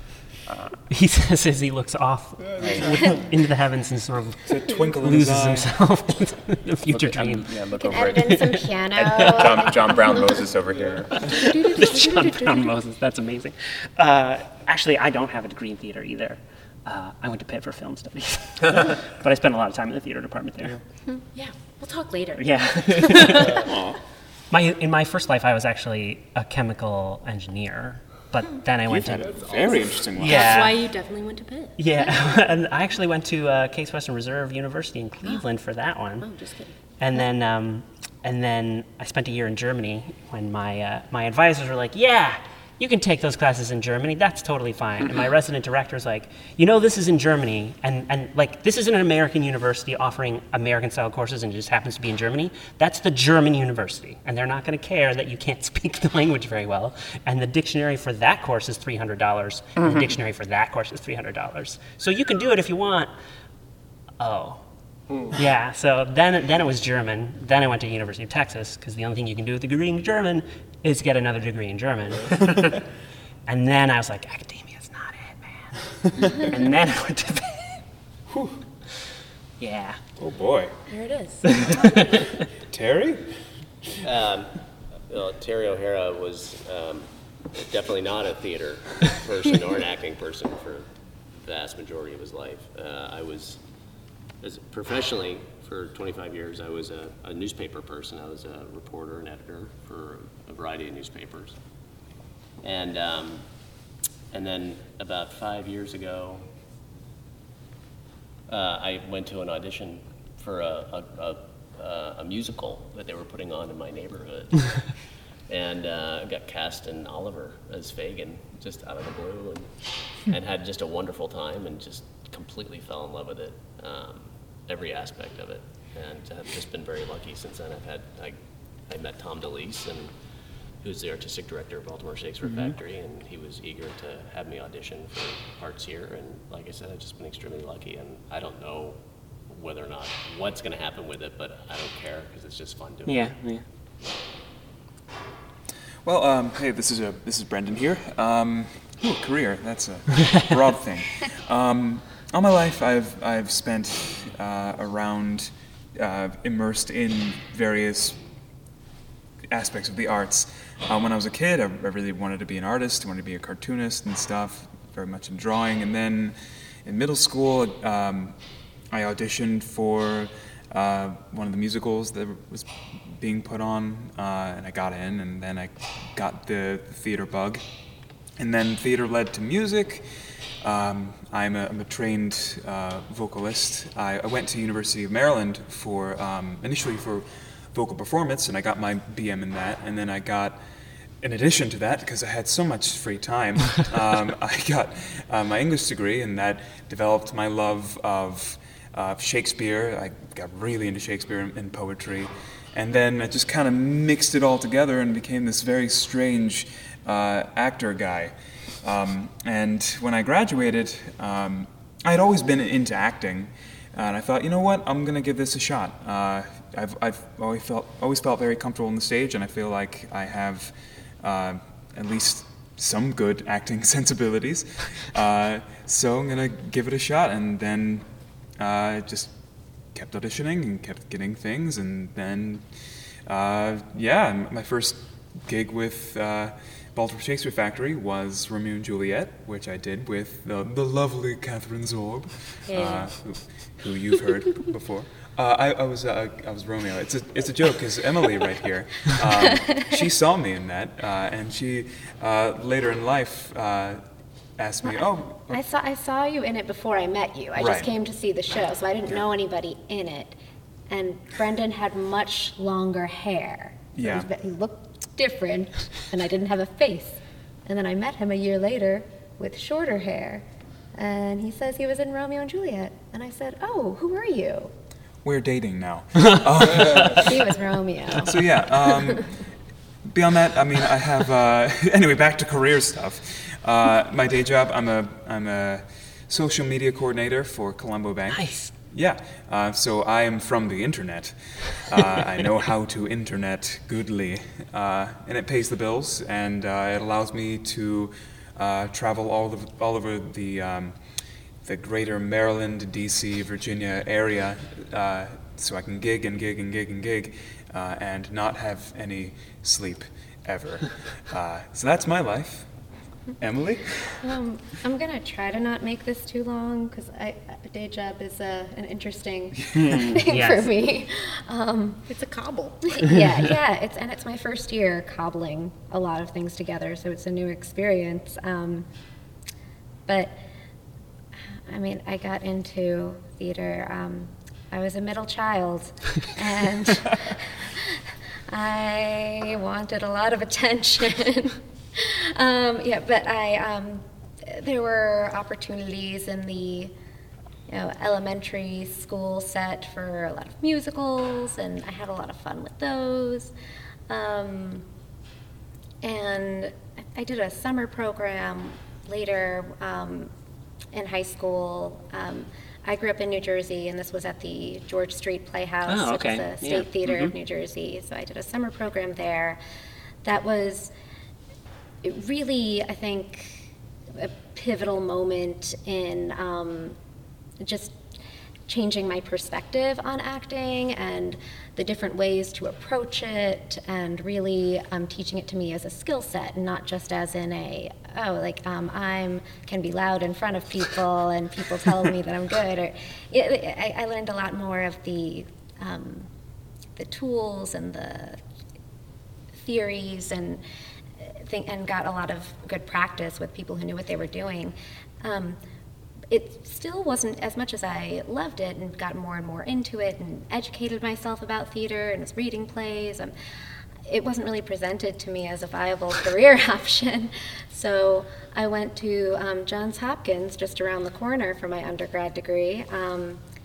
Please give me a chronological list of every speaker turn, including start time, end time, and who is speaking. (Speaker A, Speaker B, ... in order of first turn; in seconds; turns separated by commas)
Speaker A: 0.5-0.8, Speaker B: 0.9-7.6, Speaker C: 2.6-2.9, Speaker A: 2.6-2.9, Speaker D: 4.5-5.7, Speaker A: 6.9-11.6, Speaker E: 7.8-10.5, Speaker B: 8.3-8.6, Speaker B: 9.1-9.4, Speaker E: 11.3-12.7, Speaker B: 11.6-20.8, Speaker F: 21.3-23.7, Speaker B: 22.4-23.6, Speaker B: 24.5-29.4, Speaker D: 28.9-30.6, Speaker C: 29.3-30.0, Speaker F: 30.1-32.1, Speaker B: 30.2-30.8, Speaker B: 31.8-36.3, Speaker F: 36.2-36.8, Speaker B: 37.0-63.1, Speaker B: 64.2-64.7, Speaker B: 65.3-72.8, Speaker B: 73.5-77.8, Speaker B: 79.6-80.0, Speaker D: 80.2-80.8, Speaker F: 80.9-82.0, Speaker B: 81.4-82.3, Speaker D: 82.7-83.2, Speaker C: 84.0-84.5, Speaker C: 85.1-93.6, Speaker C: 94.4-101.6, Speaker C: 102.6-103.5, Speaker C: 104.3-106.5, Speaker C: 108.5-130.1, Speaker C: 130.8-143.3, Speaker B: 143.1-143.6, Speaker D: 146.0-158.2, Speaker D: 159.5-168.4, Speaker D: 168.9-177.6, Speaker D: 178.4-180.1, Speaker D: 180.6-190.6, Speaker D: 191.2-228.1, Speaker D: 228.6-229.3, Speaker D: 229.9-232.7, Speaker D: 233.3-254.0, Speaker F: 242.7-243.1, Speaker D: 254.6-255.6, Speaker E: 255.5-260.4, Speaker D: 257.6-257.9, Speaker E: 260.9-274.7, Speaker D: 263.9-264.3, Speaker D: 275.2-277.5, Speaker E: 276.9-278.5, Speaker D: 278.1-279.4, Speaker D: 280.1-301.0, Speaker B: 288.3-288.7, Speaker D: 301.6-312.7, Speaker D: 313.4-314.2, Speaker E: 314.2-322.1, Speaker B: 319.7-320.7, Speaker F: 322.1-323.3, Speaker E: 322.9-328.9, Speaker E: 330.1-330.4, Speaker E: 331.7-337.9, Speaker E: 338.5-346.9, Speaker E: 347.7-353.5, Speaker E: 354.1-354.9, Speaker E: 356.0-360.3, Speaker E: 360.9-369.6, Speaker B: 365.9-367.4, Speaker E: 370.2-370.9, Speaker E: 372.0-377.0, Speaker E: 377.6-378.0, Speaker E: 378.7-396.3, Speaker E: 397.0-398.4, Speaker E: 399.6-400.6, Speaker E: 401.2-405.6, Speaker E: 406.3-413.3, Speaker E: 414.1-423.4